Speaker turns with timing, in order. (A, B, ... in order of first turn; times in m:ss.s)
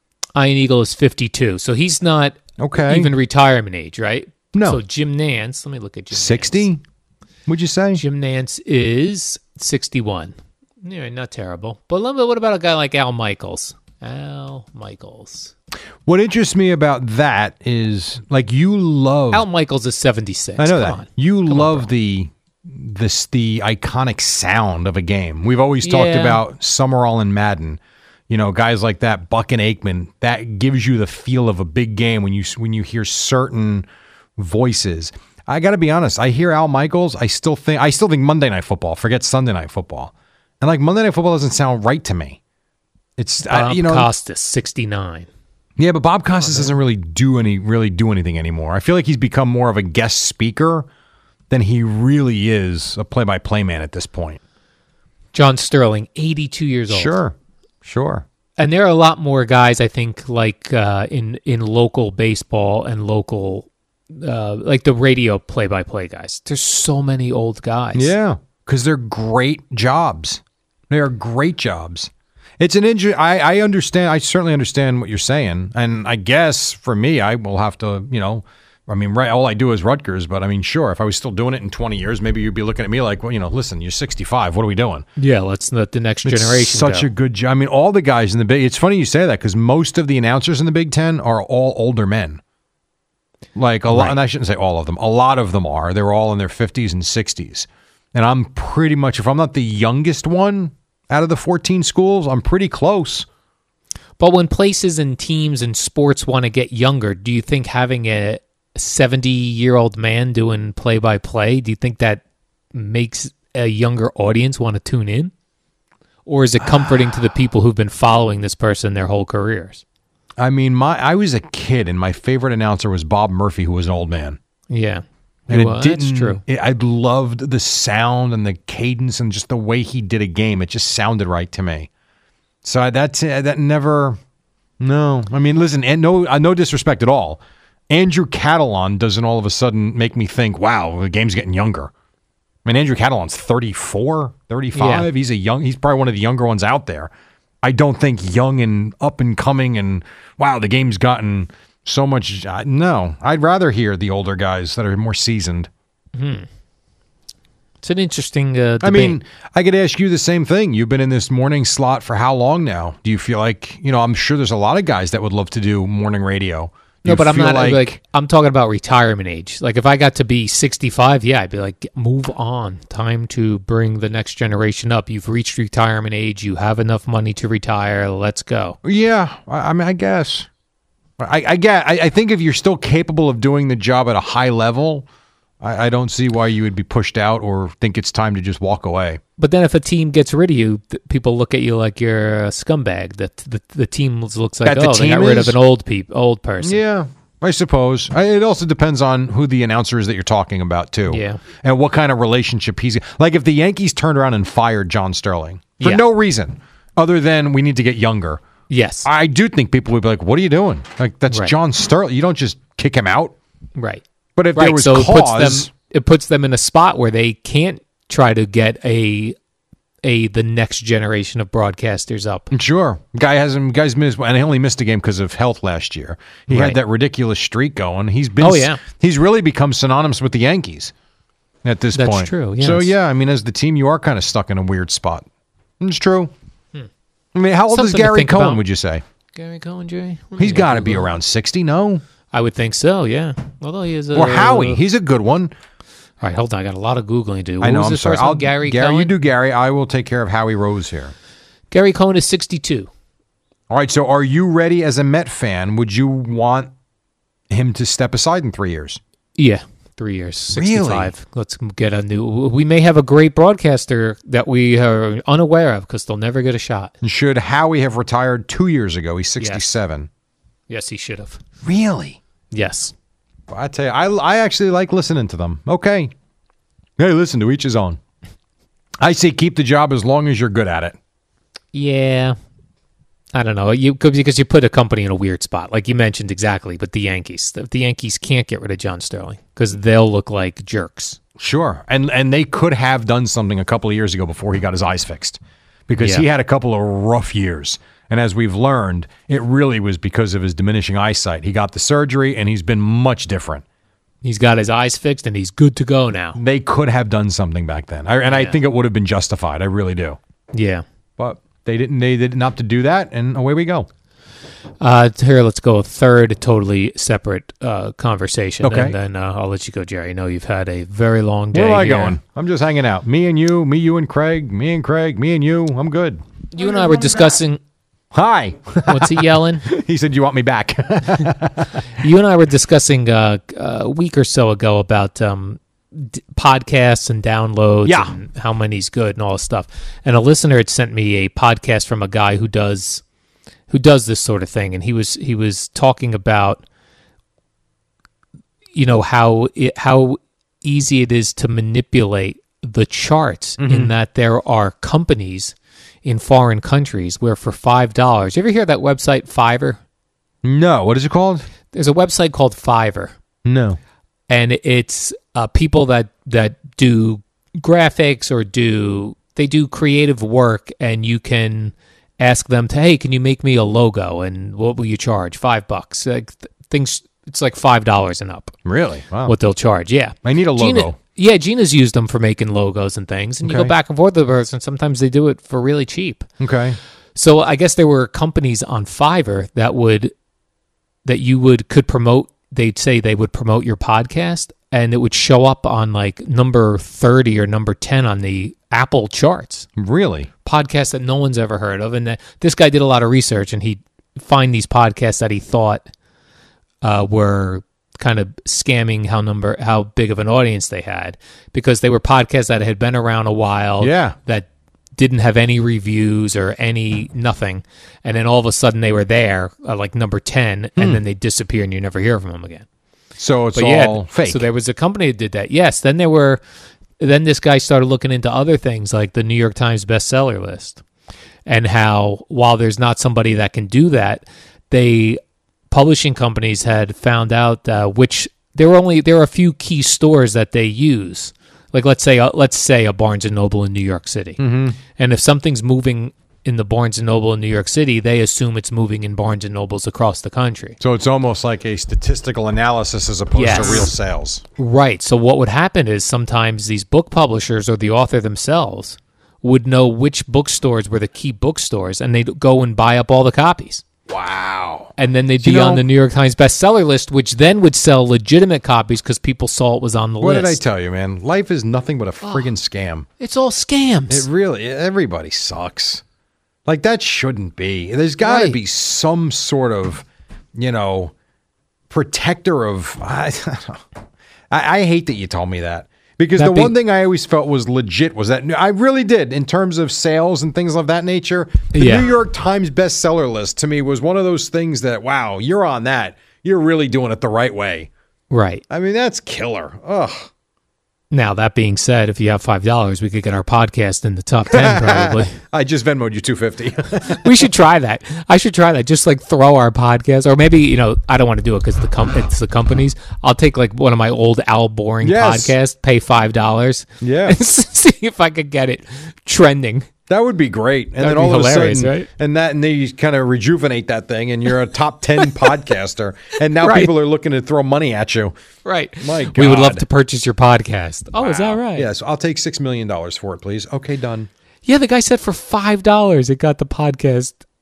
0:00.4-0:06.7 A
0:02.6-0:03.1 B
0:04.5-0:04.8 B
0:06.1-0:06.8 B
0:07.5-0:08.0 B
0:08.0-0:15.5 A
0:16.1-0:19.4 B
0:19.3-0:21.9 A
0:20.6-0:33.9 B
0:25.8-0:26.4 A
0:34.4-0:42.4 B
0:43.2-0:44.1 B
0:43.5-0:45.3 A
0:45.8-0:50.9 B
0:46.4-0:46.8 A
0:51.5-0:54.4 B
0:55.3-0:57.1 A
0:56.9-0:58.2 B
0:58.6-1:08.1 A
1:08.0-1:25.1 B
1:25.2-1:27.1 A
1:26.2-1:32.4 B
1:33.6-1:43.3 B
1:33.9-1:34.2 A
1:44.2-1:52.2 A
1:52.7-1:55.3 A
1:56.3-1:59.8 A
1:56.6-1:57.2 B
2:00.4-2:04.4 B
2:04.7-2:06.4 A
2:05.5-2:11.9 B
2:12.6-2:14.2 B
2:14.8-2:21.9 B
2:22.6-2:27.1 B
2:24.8-2:25.1 A
2:27.6-2:35.7 B
2:36.2-2:36.5 A
2:37.8-2:39.2 A
2:38.8-2:48.0 B
2:47.0-2:58.8 A
2:58.8-3:00.5 B
3:01.2-3:05.1 B
3:05.6-3:09.2 B
3:09.4-3:16.8 A
3:14.6-3:15.6 B
3:16.6-3:28.4 B
3:21.1-3:21.4 A
3:28.7-3:29.1 A
3:29.0-3:33.4 B
3:33.8-3:34.0 A
3:34.4-3:35.7 B
3:34.6-3:39.4 A
3:40.0-3:42.5 A
3:42.5-3:50.9 B
3:46.5-3:46.8 A
3:48.4-3:48.8 A
3:51.6-3:55.3 B
3:52.0-3:52.9 A
3:55.8-3:56.3 B
3:57.3-3:59.0 B
3:57.7-3:58.6 A
3:59.4-4:01.1 A
4:00.4-4:02.0 B
4:02.3-4:04.8 A
4:04.1-4:05.5 B
4:06.2-4:09.1 A
4:07.6-4:11.1 B
4:11.7-4:12.9 A
4:13.7-4:16.7 B
4:17.5-4:19.0 B
4:19.4-4:27.0 A
4:20.5-4:21.1 B
4:27.0-4:30.1 B
4:29.4-4:29.7 A
4:30.7-4:31.4 A
4:31.6-4:32.2 B
4:32.5-4:32.9 A
4:33.5-4:36.1 B
4:37.0-4:38.0 B
4:39.0-4:41.0 B
4:41.7-4:42.4 A
4:43.3-4:51.2 A
4:51.4-5:03.6 B
4:56.0-4:56.3 A
5:04.2-5:06.4 A
5:06.4-5:10.2 B
5:08.2-5:08.6 A
5:10.5-5:10.8 A
5:11.2-5:13.9 B
5:14.8-5:22.2 A
5:18.6-5:19.0 B
5:21.5-5:26.2 B
5:26.5-5:27.6 A
5:28.1-5:31.8 B
5:28.9-5:29.7 A
5:32.0-5:43.0 A
5:37.8-5:38.2 B
5:43.7-5:46.6 A
5:48.8-5:59.8 A
5:53.6-5:53.9 B
6:00.4-6:01.5 B
6:01.7-6:03.2 A
6:03.4-6:03.8 B
6:04.3-6:18.6 A
6:18.6-6:19.4 B
6:19.3-6:26.3 A
6:20.2-6:21.0 B
6:23.4-6:23.7 B
6:26.4-6:26.8 B
6:27.2-6:30.1 A
6:31.0-6:39.7 A
6:39.8-6:40.3 B
6:40.4-6:45.9 A
6:46.8-7:02.7 A
6:53.8-6:54.2 B
7:00.8-7:01.0 B
7:03.2-7:04.5 B
7:03.5-7:06.4 A
7:07.0-7:10.8 A
7:11.5-7:15.2 A
7:15.7-7:24.4 A
7:24.4-7:24.8 B
7:25.0-7:30.8 A
7:30.8-7:34.4 B
7:33.3-7:33.9 A
7:34.6-7:43.8 A
7:44.1-7:45.8 B
7:45.0-7:50.6 A
7:50.2-7:53.1 B
7:52.2-7:52.5 A
7:53.2-7:54.3 A
7:54.1-7:56.0 B
7:56.7-8:01.1 B
7:58.2-7:58.6 A
8:01.9-8:03.8 B
8:04.5-8:17.9 B
8:06.4-8:06.8 A
8:11.7-8:12.1 A
8:18.3-8:18.6 A
8:18.7-8:20.3 B
8:21.1-8:25.4 A
8:24.5-8:27.5 B
8:27.1-8:39.9 A
8:35.0-8:35.5 B
8:37.0-8:37.4 B
8:40.1-8:48.4 B
8:41.0-8:42.1 A
8:45.2-8:45.5 A
8:46.6-8:46.9 A
8:48.6-8:51.9 A
8:49.0-8:49.8 B
8:51.2-8:54.3 B
8:54.7-8:57.4 A